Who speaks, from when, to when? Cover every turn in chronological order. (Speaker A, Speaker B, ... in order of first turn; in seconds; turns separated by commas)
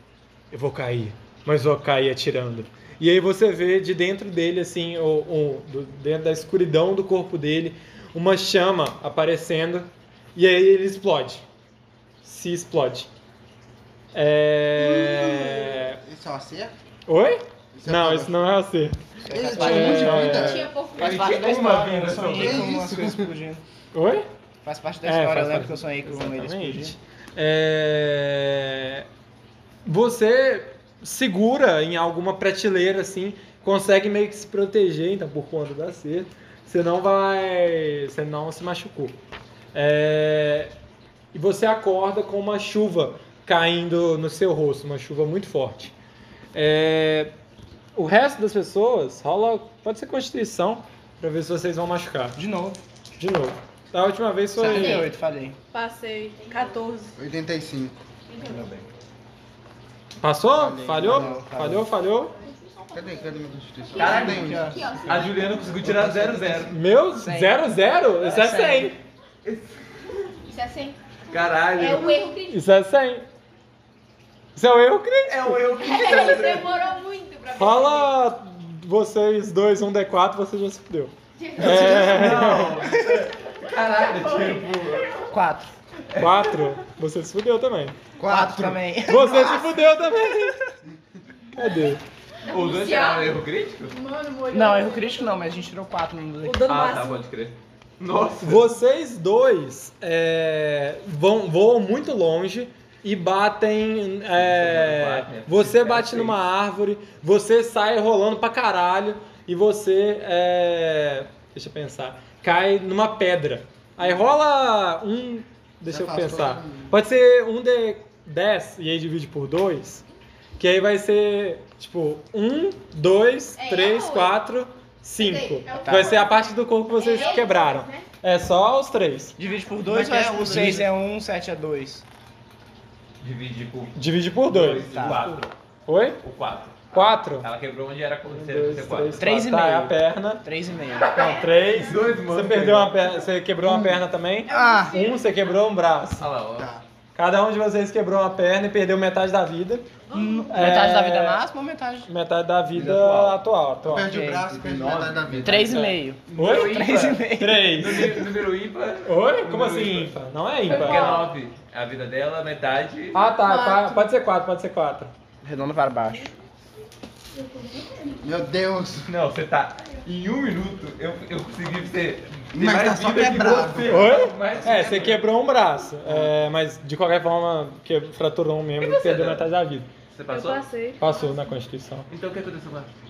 Speaker A: 0.5-11.4, Speaker A: 12.2-13.1, Speaker A: 14.1-16.0, Speaker B: 14.7-16.7, Speaker A: 17.1-19.0, Speaker B: 17.7-18.4, Speaker C: 19.2-23.6, Speaker B: 19.3-20.7, Speaker A: 19.5-20.7, Speaker D: 20.2-21.4, Speaker E: 21.0-22.7, Speaker B: 22.1-23.3, Speaker A: 23.9-24.3, Speaker C: 24.6-26.9, Speaker A: 25.0-29.1, Speaker A: 29.9-39.1, Speaker A: 39.7-40.7, Speaker A: 41.3-45.9, Speaker A: 46.5-47.3, Speaker A: 47.9-52.4, Speaker C: 52.4-52.8, Speaker A: 53.2-55.1, Speaker C: 54.6-55.6, Speaker F: 55.7-57.2, Speaker D: 56.4-56.8, Speaker B: 57.2-58.0, Speaker D: 58.3-58.8, Speaker E: 58.4-58.9, Speaker A: 60.2-62.4, Speaker C: 60.6-61.9, Speaker B: 60.6-61.4, Speaker D: 62.4-65.7, Speaker B: 62.9-65.2, Speaker E: 63.9-64.5, Speaker C: 64.0-64.9, Speaker E: 65.0-66.7, Speaker C: 65.8-66.5, Speaker A: 66.6-69.0, Speaker C: 67.1-67.6, Speaker C: 68.2-68.9, Speaker E: 69.4-69.8, Speaker D: 70.5-72.6, Speaker E: 71.3-72.3, Speaker A: 72.5-73.2, Speaker A: 74.5-75.7, Speaker E: 75.3-76.8, Speaker D: 75.7-78.1, Speaker A: 77.5-82.8, Speaker D: 81.4-82.6, Speaker E: 81.6-85.2, Speaker C: 81.7-83.3, Speaker D: 83.6-85.2, Speaker C: 85.3-85.7, Speaker E: 86.1-86.6, Speaker A: 86.2-88.0, Speaker B: 88.2-88.9, Speaker C: 88.2-90.6, Speaker A: 89.0-90.6, Speaker A: 91.5-92.0, Speaker D: 92.4-93.4, Speaker E: 92.5-93.9, Speaker D: 93.9-95.1, Speaker F: 94.4-95.3, Speaker C: 94.5-96.8, Speaker F: 96.4-97.2, Speaker E: 96.7-98.7, Speaker A: 98.4-120.0, Speaker E: 104.4-106.4, Speaker B: 115.9-116.9, Speaker A: 120.6-129.3, Speaker D: 123.6-124.4, Speaker D: 125.2-128.1, Speaker C: 125.7-126.2, Speaker C: 129.4-132.1, Speaker B: 129.8-130.9, Speaker E: 133.2-133.9, Speaker A: 133.9-136.2, Speaker E: 134.5-135.5, Speaker C: 134.8-135.2, Speaker E: 136.2-139.2, Speaker A: 136.9-137.5, Speaker A: 138.3-140.4, Speaker C: 139.2-141.4, Speaker D: 141.1-141.5, Speaker A: 141.2-146.2, Speaker E: 141.7-143.0, Speaker C: 144.5-145.1, Speaker F: 144.5-144.9, Speaker E: 146.2-146.7, Speaker B: 146.6-146.8, Speaker A: 147.1-149.9, Speaker F: 150.1-150.7, Speaker C: 150.1-152.1, Speaker A: 150.5-151.4, Speaker A: 152.1-154.1, Speaker E: 152.7-153.4, Speaker B: 153.8-155.9, Speaker C: 154.1-158.2, Speaker E: 154.7-160.2, Speaker A: 156.3-158.2, Speaker A: 159.0-161.2, Speaker F: 160.7-161.3, Speaker E: 160.7-163.2, Speaker A: 163.1-165.1, Speaker F: 163.4-164.1, Speaker C: 165.4-166.3, Speaker D: 167.4-168.2, Speaker B: 168.2-169.1, Speaker E: 169.1-175.2, Speaker B: 172.5-174.2, Speaker A: 173.9-179.9, Speaker E: 178.8-179.4, Speaker E: 180.1-180.6, Speaker F: 180.3-181.0, Speaker A: 181.0-182.1, Speaker E: 182.1-182.9